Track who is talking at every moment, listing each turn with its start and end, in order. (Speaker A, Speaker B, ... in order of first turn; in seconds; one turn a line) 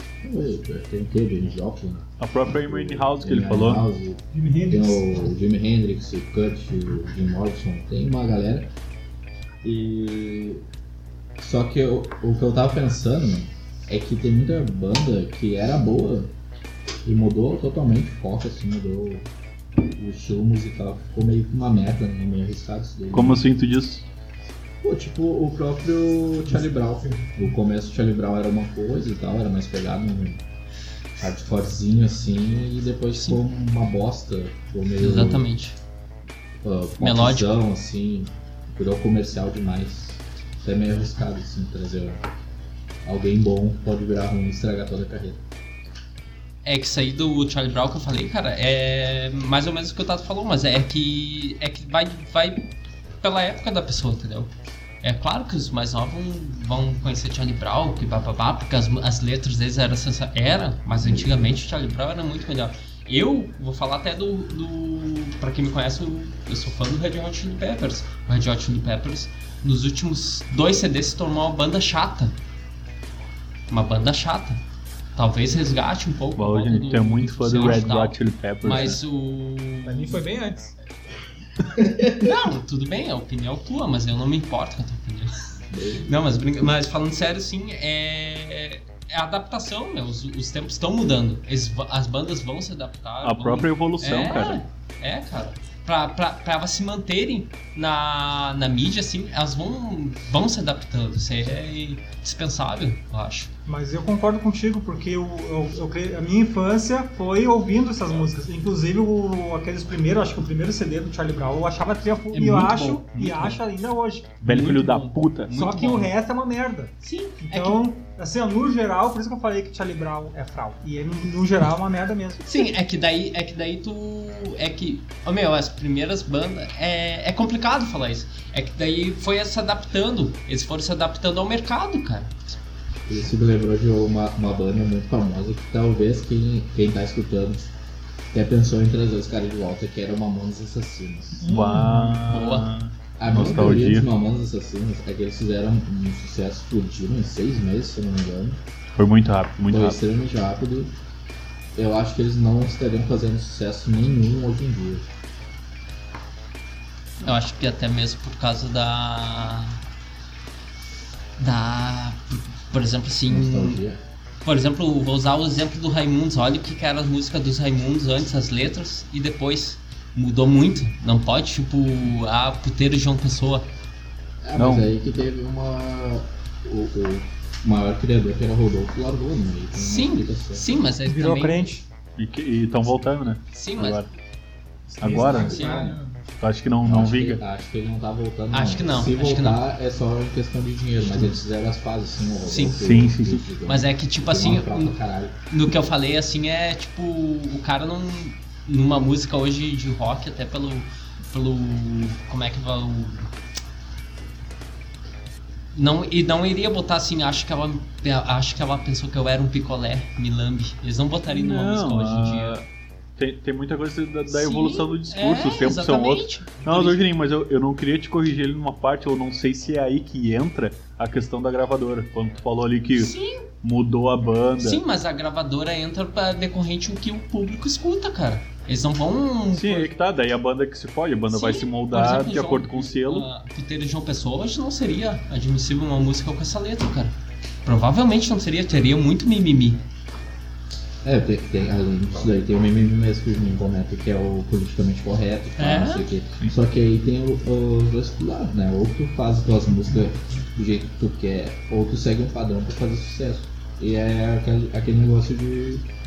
Speaker A: 0.2-8.7
Speaker B: 2.2-3.9
Speaker C: 4.3-5.0
Speaker A: 9.6-10.6
Speaker A: 11.4-16.3
Speaker A: 17.0-19.3
Speaker A: 19.9-23.5
Speaker B: 23.1-24.1
Speaker A: 24.8-30.4
Speaker A: 31.2-35.5
Speaker D: 35.0-35.8
Speaker A: 36.6-42.2
Speaker D: 37.0-37.6
Speaker A: 43.0-45.4
Speaker D: 46.6-52.7
Speaker D: 53.2-72.4
Speaker A: 61.0-61.5
Speaker D: 73.7-74.6
Speaker D: 75.2-80.2
Speaker B: 76.4-79.0
Speaker E: 79.8-80.7
Speaker D: 82.2-85.3
Speaker A: 85.7-86.1
Speaker D: 86.0-103.5
Speaker B: 93.2-94.6
Speaker C: 103.7-114.4
Speaker B: 112.3-113.6
Speaker B: 114.4-115.6
Speaker D: 114.4-116.1
Speaker C: 115.5-122.4
Speaker D: 117.0-117.9
Speaker D: 122.4-132.6
Speaker A: 133.1-137.7
Speaker A: 138.3-141.5
Speaker B: 141.4-144.1
Speaker C: 141.5-142.1
Speaker D: 142.3-142.7
Speaker A: 143.2-148.6
Speaker B: 149.0-150.0
Speaker A: 149.7-150.9
Speaker A: 151.8-155.1
Speaker D: 157.2-159.8
Speaker D: 161.4-163.8
Speaker A: 163.3-164.0
Speaker D: 164.4-173.7
Speaker A: 174.4-180.7
Speaker B: 174.6-174.9
Speaker D: 179.7-181.7
Speaker C: 181.1-181.8
Speaker B: 182.2-184.1
Speaker D: 183.5-184.1
Speaker B: 185.0-185.6
Speaker E: 185.0-186.2
Speaker A: 185.1-186.0
Speaker D: 185.2-185.9
Speaker B: 186.4-187.4
Speaker A: 186.8-195.4
Speaker D: 188.5-189.7
Speaker D: 192.5-192.8
Speaker B: 192.7-193.5
Speaker D: 193.7-195.0
Speaker D: 195.5-203.3
Speaker D: 205.7-212.6
Speaker B: 211.3-212.7
Speaker B: 213.2-224.8
Speaker D: 214.3-217.1
Speaker D: 222.9-223.5
Speaker D: 224.6-229.9
Speaker B: 229.5-233.3
Speaker D: 231.3-237.1
Speaker D: 237.7-239.8
Speaker A: 241.0-255.9
Speaker D: 245.6-246.1